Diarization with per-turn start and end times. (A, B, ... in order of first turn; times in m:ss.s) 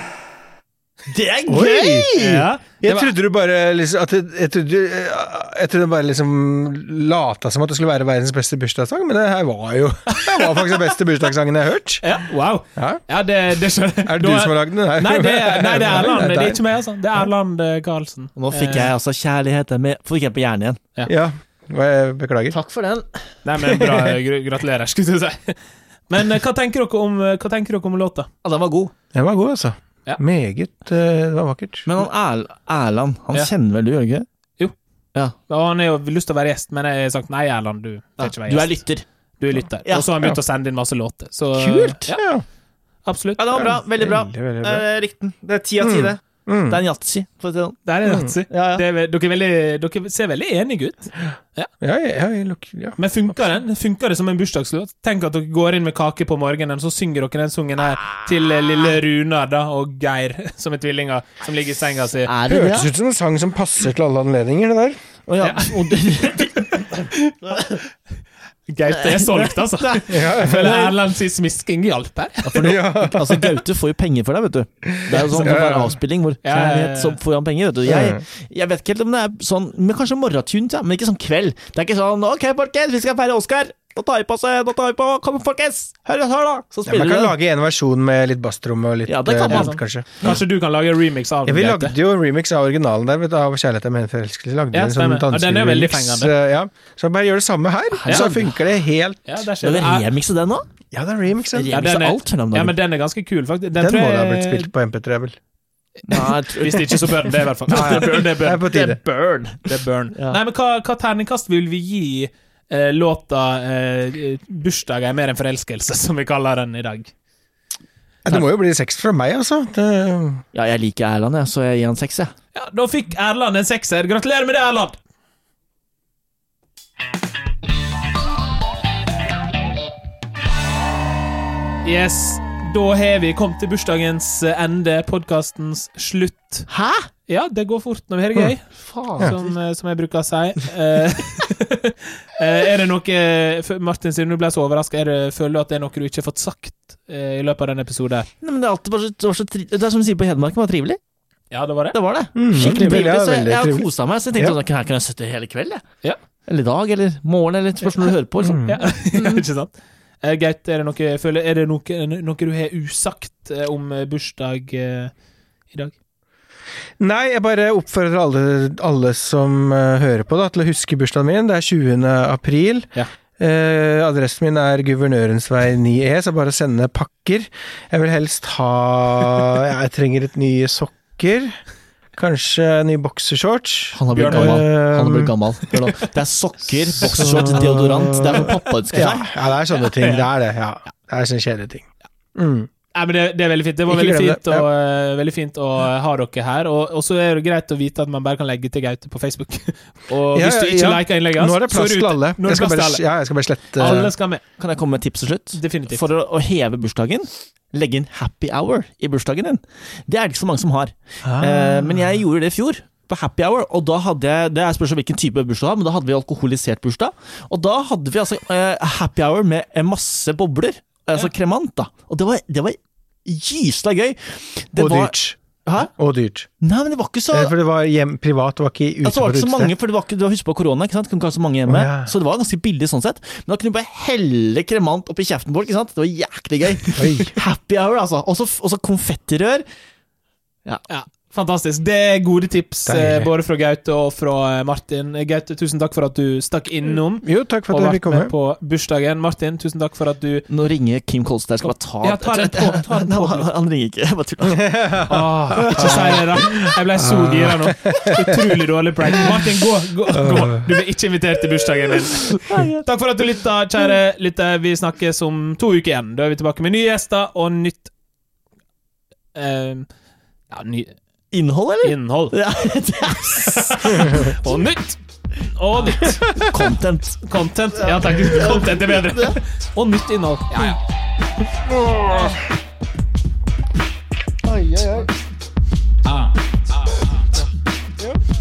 0:01.1-0:02.5 A
0:01.5-0:02.2 B
0:02.2-0:03.1 C
0:02.8-0:12.0 B
0:10.1-0:10.8 C
0:12.0-0:18.9 C
0:12.8-0:13.0 B
0:14.1-0:16.6 B
0:18.4-0:20.8 A
0:21.1-0:22.6 B
0:22.5-0:23.1 A
0:23.4-0:25.6 C
0:23.6-0:24.0 B
0:26.1-0:28.3 C
0:28.4-0:28.9 A
0:29.1-0:31.9 B
0:31.9-0:34.3 A
0:35.5-0:38.8 C
0:38.2-0:39.0 A
0:39.4-0:42.2 C
0:41.6-0:42.1 A
0:42.1-0:42.4 B
0:43.0-0:43.4 C
0:43.4-0:47.8 A
0:43.6-0:44.9 B
0:45.8-0:46.8 B
0:47.8-0:51.7 C
0:48.1-0:48.3 B
0:48.5-0:48.8 A
0:51.8-0:53.3 B
0:53.0-1:02.3 C
1:02.3-1:02.9 A
1:02.5-1:05.0 B
1:05.3-1:07.8 A
1:05.4-1:07.7 C
1:08.7-1:12.7 C
1:08.9-1:11.0 A
1:10.1-1:10.8 B
1:12.5-1:27.4 A
1:12.6-1:13.4 B
1:14.8-1:16.0 B
1:15.2-1:15.5 C
1:16.4-1:17.2 C
1:17.8-1:18.2 B
1:26.9-1:30.1 B
1:29.1-1:30.4 A
1:29.5-1:32.0 C
1:31.5-1:39.3 B
1:34.7-1:36.3 C
1:38.0-1:38.5 A
1:38.1-1:38.3 C
1:39.3-1:40.1 C
1:39.6-1:40.6 A
1:40.9-1:41.7 B
1:41.5-1:42.8 A
1:41.7-1:44.7 C
1:43.8-1:45.4 B
1:46.1-1:48.7 C
1:46.1-1:50.4 A
1:47.7-1:49.0 B
1:49.7-1:57.1 C
1:58.2-2:00.4 B
2:00.5-2:02.3 A
2:02.6-2:05.0 C
2:11.8-2:16.7 C
2:16.7-2:17.1 A
2:17.3-2:28.3 C
2:18.8-2:19.5 A
2:28.4-2:31.0 A
2:31.5-2:32.0 C
2:31.9-2:35.8 A
2:32.4-2:34.6 B
2:36.5-2:39.4 A
2:38.4-2:38.8 B
2:38.6-2:45.1 C
2:47.0-3:01.6 B
3:02.2-3:05.3 B
3:03.9-3:09.3 A
3:04.1-3:04.6 C
3:07.0-3:12.7 B
3:09.8-3:10.3 C
3:12.9-3:23.0 C
3:13.9-3:14.7 B
3:20.3-3:24.1 B
3:23.8-3:24.4 C
3:23.8-3:45.9 A
3:25.5-3:26.0 C
3:31.2-3:32.2 B
3:44.8-3:45.4 B
3:46.0-3:46.5 B
3:46.6-3:47.5 A
3:47.3-3:49.7 B
3:49.0-3:59.6 A
3:51.7-3:52.1 B
3:57.0-3:57.4 B
4:00.9-4:10.5 C
4:02.9-4:03.3 B
4:07.2-4:08.3 B
4:10.5-4:15.0 A
4:12.0-4:13.5 C
4:14.6-4:18.5 B
4:15.1-4:27.9 C
4:15.6-4:16.3 A
4:20.1-4:20.7 B
4:22.2-4:22.9 A
4:29.4-4:29.9 C
4:30.5-4:31.0 C
4:31.3-4:34.4 A
4:31.8-4:32.4 C
4:33.4-4:36.5 C
4:36.4-4:37.2 A
4:37.2-4:40.8 C
4:37.8-4:39.4 A
4:41.7-4:42.4 B
4:44.4-4:45.1 B
4:46.0-4:46.4 C